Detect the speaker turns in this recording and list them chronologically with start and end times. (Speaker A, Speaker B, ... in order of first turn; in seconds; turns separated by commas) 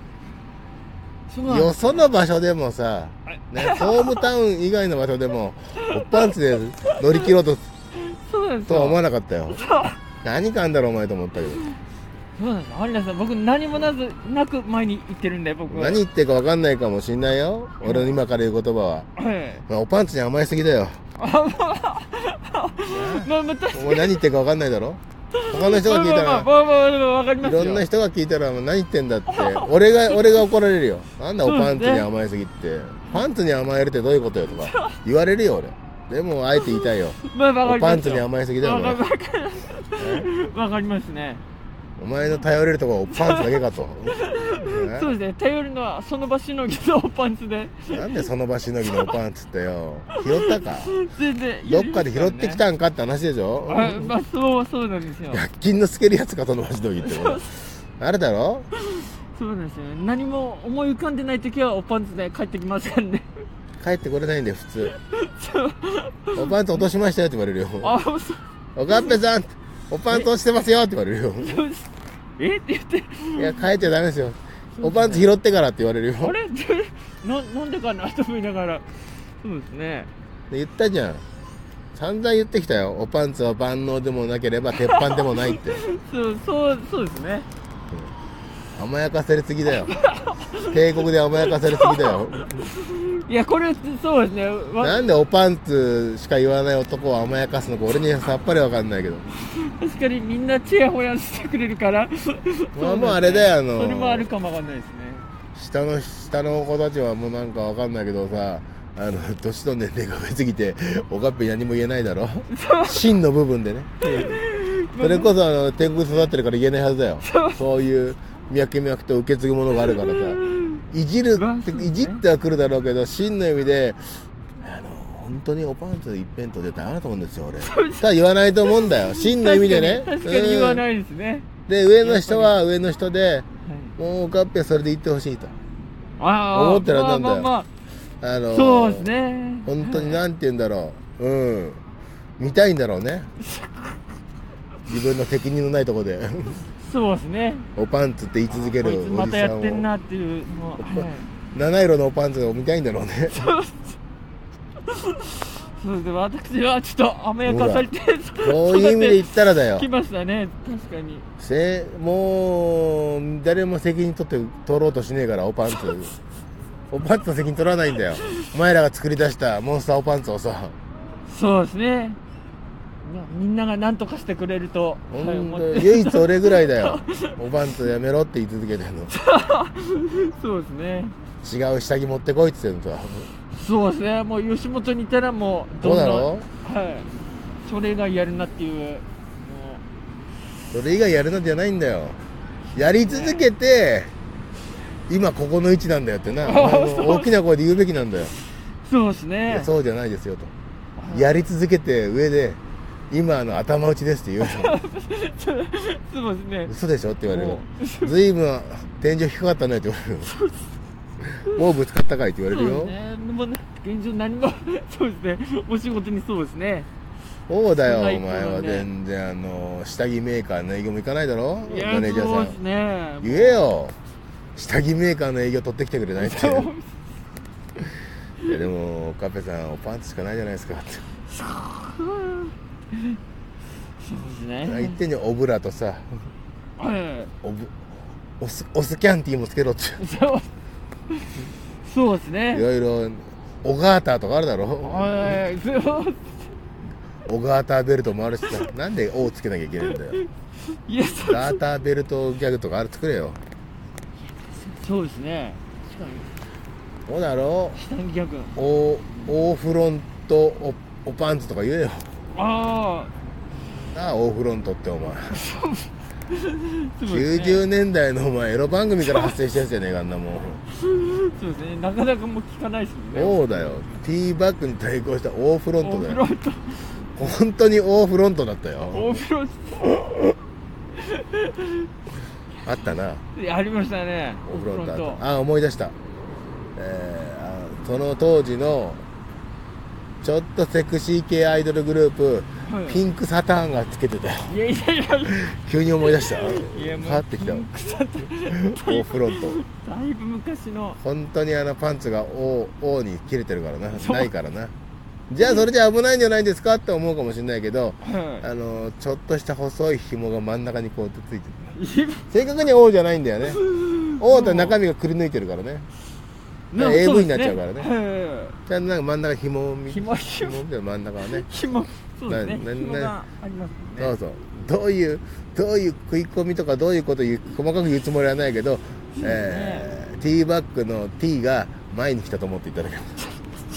Speaker A: 1.3-2.1, Speaker B: 1.4-7.6, Speaker A: 3.3-4.3, Speaker A: 5.8-6.3, Speaker A: 7.0-7.2, Speaker A: 7.9-9.0, Speaker B: 8.7-9.6, Speaker A: 9.5-10.0, Speaker B: 10.2-11.6, Speaker A: 12.4-16.0, Speaker B: 15.7-19.1, Speaker A: 17.8-18.2, Speaker A: 19.1-19.6, Speaker B: 19.7-21.0, Speaker A: 21.2-24.2, Speaker B: 22.9-26.5, Speaker A: 25.3-27.9, Speaker B: 27.4-39.0, Speaker A: 29.3-30.4, Speaker A: 31.4-32.1, Speaker A: 34.6-35.0, Speaker A: 36.6-41.4, Speaker B: 40.0-40.3, Speaker B: 42.0-45.1, Speaker A: 43.1-43.6, Speaker A: 44.1-48.2, Speaker B: 47.9-51.0, Speaker A: 48.9-49.1, Speaker A: 50.8-52.6, Speaker B: 51.6-54.1, Speaker A: 53.7-55.4, Speaker B: 55.3-58.7, Speaker A: 57.0-57.5, Speaker A: 58.8-63.3, Speaker B: 63.8-64.9, Speaker A: 64.9-66.8, Speaker B: 66.3-68.0, Speaker A: 67.8-69.1, Speaker B: 68.8-71.6, Speaker A: 71.4-73.7, Speaker B: 73.3-76.4, Speaker A: 74.8-75.3, Speaker A: 76.2-78.8, Speaker A: 79.4-80.1, Speaker B: 80.5-81.2, Speaker B: 82.0-85.8, Speaker A: 84.7-87.5, Speaker B: 88.8-89.9, Speaker A: 89.8-90.8, Speaker B: 90.6-92.7, Speaker A: 91.4-95.0, Speaker B: 94.8-99.2, Speaker A: 99.4-105.3, Speaker B: 102.8-104.3, Speaker B: 105.5-114.4, Speaker A: 112.5-113.0, Speaker A: 114.0-115.3, Speaker B: 115.0-120.4, Speaker A: 117.2-117.6, Speaker A: 119.8-120.8, Speaker B: 120.9-124.0, Speaker A: 121.3-122.2, Speaker B: 124.6-130.8, Speaker A: 127.6-128.0, Speaker A: 128.7-131.5, Speaker B: 131.7-133.4, Speaker A: 132.0-132.6, Speaker A: 133.7-133.9, Speaker B: 134.0-135.5, Speaker A: 136.2-137.7, Speaker B: 136.5-137.5, Speaker B: 138.2-139.1, Speaker A: 138.5-140.2, Speaker B: 139.6-141.8, Speaker B: 142.4-143.3, Speaker A: 143.4-144.0, Speaker B: 144.9-146.6, Speaker A: 146.8-147.7, Speaker B: 147.7-149.9, Speaker A: 148.5-151.3, Speaker B: 150.8-153.5, Speaker A: 153.3-154.0, Speaker A: 154.8-161.3, Speaker B: 157.4-157.9, Speaker B: 158.4-159.9, Speaker B: 161.4-166.1, Speaker B: 166.9-170.7, Speaker A: 171.3-172.2, Speaker A: 173.0-177.4, Speaker B: 175.1-179.1, Speaker A: 179.1-181.2, Speaker B: 181.4-183.3, Speaker A: 183.5-187.1, Speaker B: 185.8-186.5, Speaker A: 187.6-189.8, Speaker B: 190.7-192.2, Speaker B: 192.7-194.1, Speaker A: 192.8-193.5, Speaker B: 195.1-198.3, Speaker A: 196.4-197.3, Speaker A: 198.8-199.7, Speaker B: 199.5-200.5, Speaker A: 201.0-201.4, Speaker B: 201.1-202.6, Speaker B: 203.1-204.8, Speaker A: 204.5-206.7, Speaker B: 206.7-210.3, Speaker A: 207.3-208.1, Speaker A: 210.2-210.7, Speaker B: 211.2-212.9, Speaker A: 212.5-216.9, Speaker B: 217.5-222.6, Speaker A: 217.8-218.9, Speaker A: 221.7-223.7, Speaker B: 223.2-223.9, Speaker B: 224.6-226.7, Speaker A: 226.2-226.9, Speaker B: 228.4-231.0, Speaker A: 231.3-233.2, Speaker A: 234.0-235.0, Speaker B: 234.7-236.1, Speaker A: 236.8-237.3, Speaker B: 237.4-237.8, Speaker B: 238.4-240.0, Speaker A: 240.0-240.5, Speaker A: 241.8-242.6, Speaker B: 242.5-245.4, Speaker A: 244.8-246.4, Speaker B: 247.2-250.2, Speaker A: 249.8-251.6, Speaker B: 251.2-253.4, Speaker A: 254.3-256.3, Speaker B: 257.1-257.8, Speaker A: 257.7-258.5, Speaker B: 258.6-262.1, Speaker A: 262.3-263.1, Speaker B: 263.9-265.4, Speaker A: 265.3-267.6, Speaker B: 267.1-270.6, Speaker A: 269.1-269.3, Speaker A: 270.7-273.9, Speaker B: 273.1-276.2, Speaker A: 275.8-276.9, Speaker B: 277.1-279.2, Speaker A: 278.8-280.4, Speaker A: 281.0-281.9, Speaker B: 282.6-283.2, Speaker A: 283.3-285.2, Speaker B: 284.4-285.9, Speaker B: 286.8-289.0, Speaker B: 290.2-294.5, Speaker A: 292.6-293.0, Speaker A: 294.5-295.5, Speaker B: 295.3-297.7, Speaker A: 296.2-301.0, Speaker B: 298.5-299.6, Speaker B: 301.0-304.7, Speaker A: 304.0-304.3, Speaker B: 305.3-311.8, Speaker A: 308.0-308.4, Speaker A: 311.8-312.2, Speaker B: 312.3-313.6, Speaker A: 313.6-314.8, Speaker B: 314.2-315.9, Speaker A: 316.7-318.6, Speaker B: 316.7-317.9, Speaker B: 318.7-321.5, Speaker A: 319.9-320.6, Speaker A: 321.4-324.1, Speaker B: 322.3-323.1, Speaker B: 324.0-333.2, Speaker A: 329.1-329.9, Speaker A: 333.2-333.6